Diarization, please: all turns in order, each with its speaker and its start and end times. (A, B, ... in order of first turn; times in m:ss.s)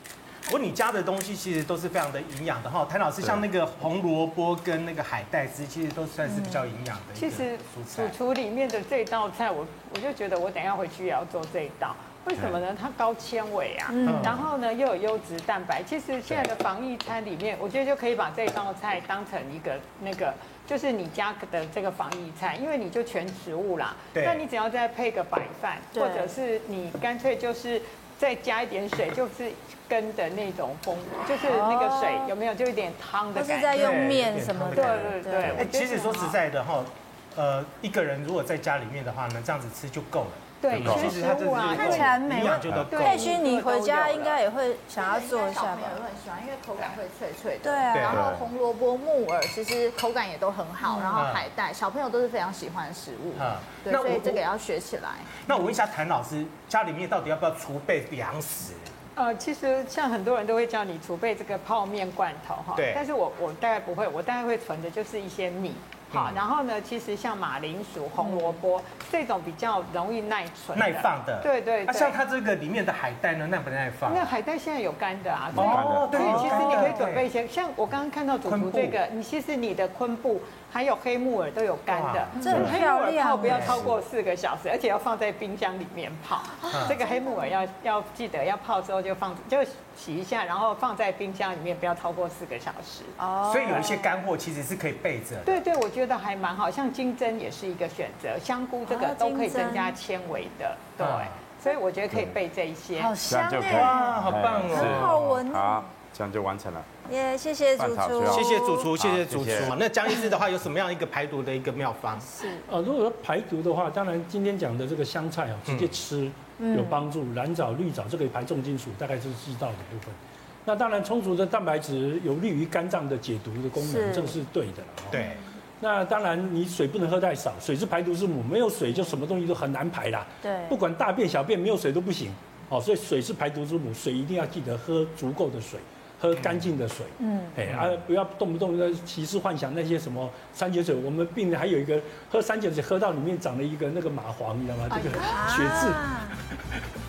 0:00.5-0:08.1 A
0:06.3-0:06.6 B
0:07.2-0:34.1 C
0:13.9-0:14.4 B
0:14.0-0:14.4 A
0:24.1-0:24.4 A
0:25.9-0:26.3 B
0:31.4-0:32.3 B
0:33.3-0:35.7 B
0:33.7-0:43.4 A
0:34.7-0:36.4 C
0:40.6-0:44.4 C
0:40.7-0:41.1 D
0:41.7-0:46.0 B
0:42.4-0:42.9 D
0:45.0-0:55.4 E
0:47.6-0:48.3 B
0:47.9-0:48.2 A
0:48.1-0:48.4 D
0:50.8-0:51.2 C
0:51.2-0:51.5 A
0:53.3-0:54.4 A
0:55.4-0:58.9 A
0:59.1-1:12.2 C
1:02.7-1:03.0 A
1:06.1-1:06.4 A
1:08.2-1:08.6 B
1:10.7-1:14.4 A
1:14.0-1:33.2 C
1:15.5-1:16.2 D
1:15.5-1:17.3 A
1:16.2-1:17.0 B
1:18.4-1:19.0 A
1:21.9-1:22.4 A
1:22.4-1:23.8 B
1:23.4-1:23.8 A
1:26.6-1:27.5 B
1:26.7-1:27.0 A
1:33.2-1:34.1 B
1:33.5-1:35.6 A
1:35.4-1:43.1 C
1:38.8-1:39.9 B
1:41.0-1:41.4 A
1:42.9-1:45.9 B
1:43.3-1:46.9 D
1:43.7-1:45.2 A
1:47.0-1:48.8 B
1:47.8-1:49.7 D
1:48.3-1:52.3 A
1:52.3-1:52.6 B
1:52.6-2:05.2 F
1:55.6-1:56.0 A
1:56.6-1:57.1 B
2:03.8-2:04.4 B
2:05.1-2:05.4 A
2:05.8-2:26.0 F
2:10.4-2:10.8 B
2:17.2-2:17.6 B
2:17.7-2:17.9 A
2:24.9-2:25.4 C
2:25.2-2:26.4 B